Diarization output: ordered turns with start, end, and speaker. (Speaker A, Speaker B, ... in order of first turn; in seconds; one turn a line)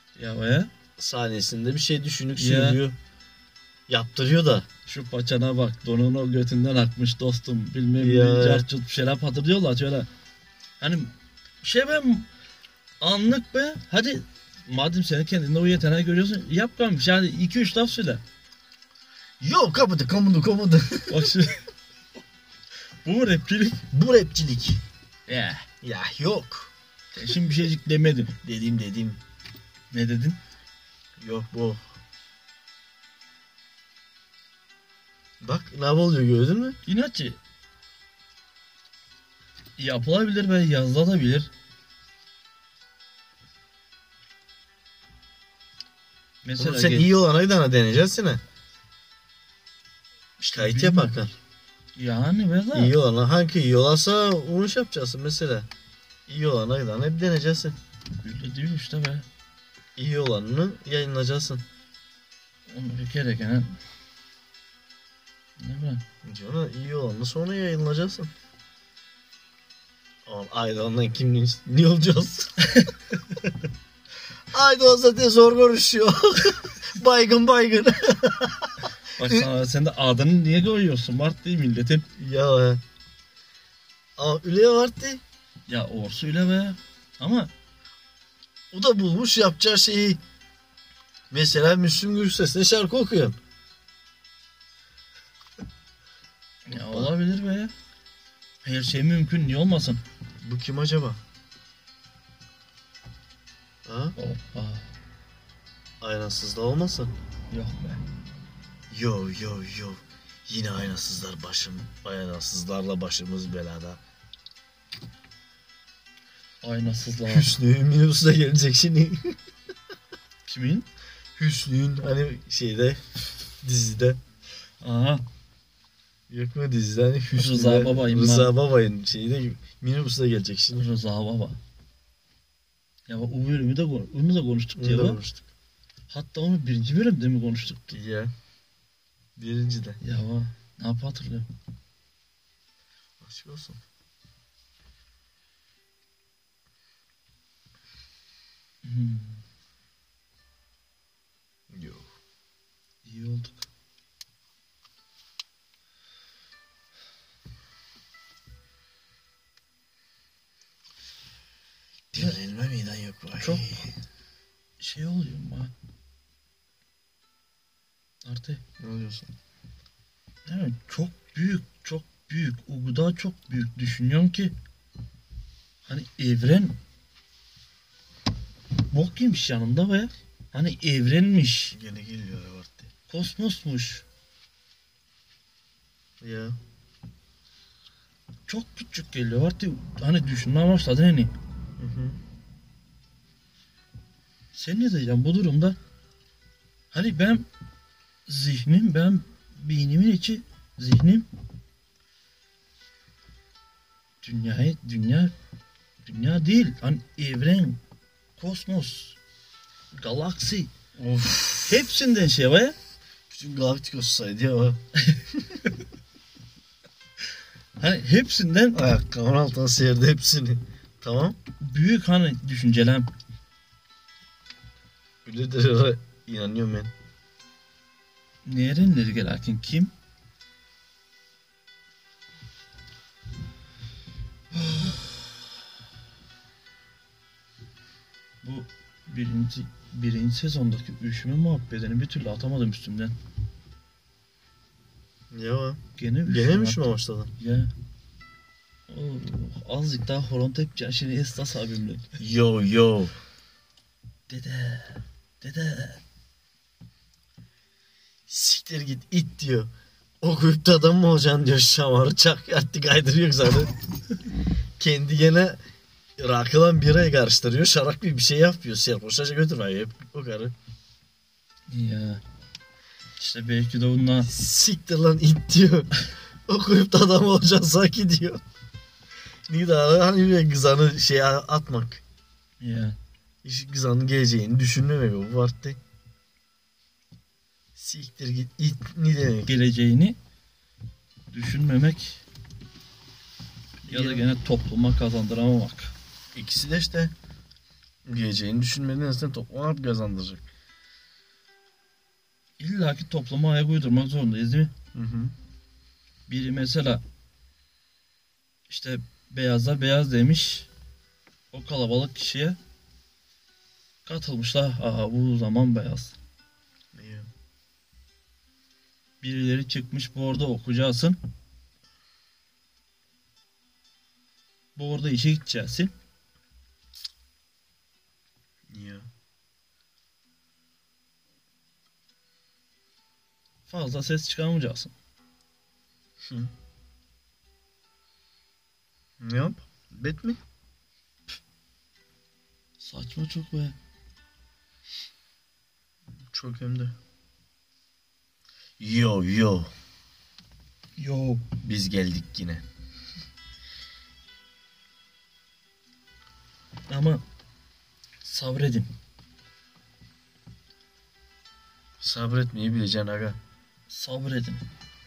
Speaker A: 0.1-0.7
Speaker B: 1.0-3.0
Speaker A: 2.4-2.8
Speaker B: 3.9-4.7
Speaker A: 4.8-10.1
Speaker B: 8.0-8.7
Speaker A: 10.8-12.3
Speaker A: 13.0-18.2
Speaker B: 19.4-21.1
Speaker A: 21.1-21.6
Speaker A: 23.0-23.8
Speaker B: 23.9-24.8
Speaker A: 25.3-25.7
Speaker B: 25.8-26.7
Speaker A: 27.1-28.4
Speaker B: 28.4-29.2
Speaker A: 29.9-30.4
Speaker B: 31.2-31.9
Speaker B: 35.4-36.8
Speaker A: 36.9-37.4
Speaker A: 39.8-41.5
Speaker A: 46.4-47.1
Speaker B: 46.6-48.4
Speaker A: 50.4-51.2
Speaker B: 50.5-51.3
Speaker A: 52.0-52.9
Speaker B: 52.7-55.7
Speaker B: 56.3-57.8
Speaker A: 58.2-59.2
Speaker B: 60.0-61.6
Speaker A: 62.7-63.8
Speaker A: 65.6-66.0
Speaker B: 66.2-68.3
Speaker B: 70.2-72.5
Speaker B: 74.5-79.5
Speaker A: 79.2-82.0
Speaker B: 82.2-82.8
Speaker B: 84.2-85.2
Speaker A: 85.7-87.5
Speaker B: 88.7-90.2
Speaker B: 91.3-93.4
Speaker A: 96.7-97.7
Speaker B: 96.7-97.1
Speaker A: 98.6-100.0
Speaker B: 100.4-101.2
Speaker B: 103.8-104.2
Speaker A: 104.2-104.9
Speaker B: 106.0-107.1
Speaker A: 107.5-108.0
Speaker B: 108.9-114.0
Speaker A: 116.6-117.5
Speaker B: 117.3-119.3
Speaker A: 120.4-120.9
Speaker B: 121.4-124.2
Speaker A: 124.8-125.2
Speaker B: 126.3-130.8
Speaker A: 127.3-128.5
Speaker A: 130.8-131.6
Speaker A: 133.1-135.2
Speaker B: 134.8-135.4
Speaker A: 136.1-138.0
Speaker B: 137.9-138.3
Speaker B: 139.4-140.0
Speaker A: 140.0-141.5
Speaker B: 143.2-143.8
Speaker A: 148.8-149.4
Speaker B: 151.7-152.1
Speaker A: 153.0-153.7
Speaker B: 162.1-163.9
Speaker A: 163.4-163.8
Speaker A: 164.8-165.7
Speaker A: 168.2-168.6
Speaker B: 168.8-169.3
Speaker A: 170.4-174.5
Speaker A: 175.9-176.8
Speaker A: 178.9-181.8
Speaker B: 181.7-182.9
Speaker A: 183.1-184.0
Speaker B: 186.2-186.6
Speaker A: 188.5-191.3
Speaker B: 191.8-192.2
Speaker A: 194.5-195.8
Speaker A: 196.9-197.4
Speaker A: 198.3-201.3
Speaker A: 204.2-205.3
Speaker A: 206.0-207.8
Speaker A: 208.4-209.2
Speaker A: 209.9-210.7
Speaker B: 211.0-211.9
Speaker A: 211.7-212.8
Speaker B: 213.3-214.8
Speaker A: 217.8-218.8
Speaker B: 218.7-221.4
Speaker A: 221.6-223.1
Speaker B: 225.2-226.9
Speaker A: 228.4-229.9
Speaker A: 234.5-235.0
Speaker A: 238.4-243.1
Speaker B: 245.3-247.3
Speaker A: 246.0-247.7
Speaker A: 248.9-252.2
Speaker B: 252.2-253.2
Speaker A: 254.3-256.0
Speaker B: 258.3-259.7
Speaker B: 260.2-263.7
Speaker B: 264.8-265.6
Speaker B: 266.2-270.5
Speaker A: 271.7-272.2
Speaker A: 273.1-274.3
Speaker B: 274.2-275.9
Speaker B: 276.5-278.4
Speaker B: 279.5-282.0
Speaker A: 282.6-283.0
Speaker B: 283.4-285.8
Speaker B: 287.8-289.5
Speaker A: 289.4-290.2
Speaker A: 291.3-292.2
Speaker B: 293.8-294.2
Speaker A: 293.9-295.9
Speaker B: 296.3-297.1
Speaker B: 298.0-300.5
Speaker A: 302.6-304.7
Speaker B: 304.9-305.3
Speaker A: 306.3-307.0
Speaker A: 308.7-310.7
Speaker A: 311.5-312.6
Speaker A: 314.0-316.1
Speaker B: 316.9-317.3
Speaker A: 319.2-321.2
Speaker A: 324.8-325.9
Speaker B: 328.7-329.1
Speaker A: 333.7-334.9
Speaker B: 336.2-336.5
Speaker B: 339.2-340.4
Speaker A: 342.8-343.8
Speaker B: 346.1-346.9
Speaker B: 348.8-349.7
Speaker A: 351.0-351.4
Speaker B: 351.6-352.6
Speaker A: 356.9-357.2
Speaker A: 358.2-358.9
Speaker B: 362.0-363.4
Speaker A: 363.9-364.6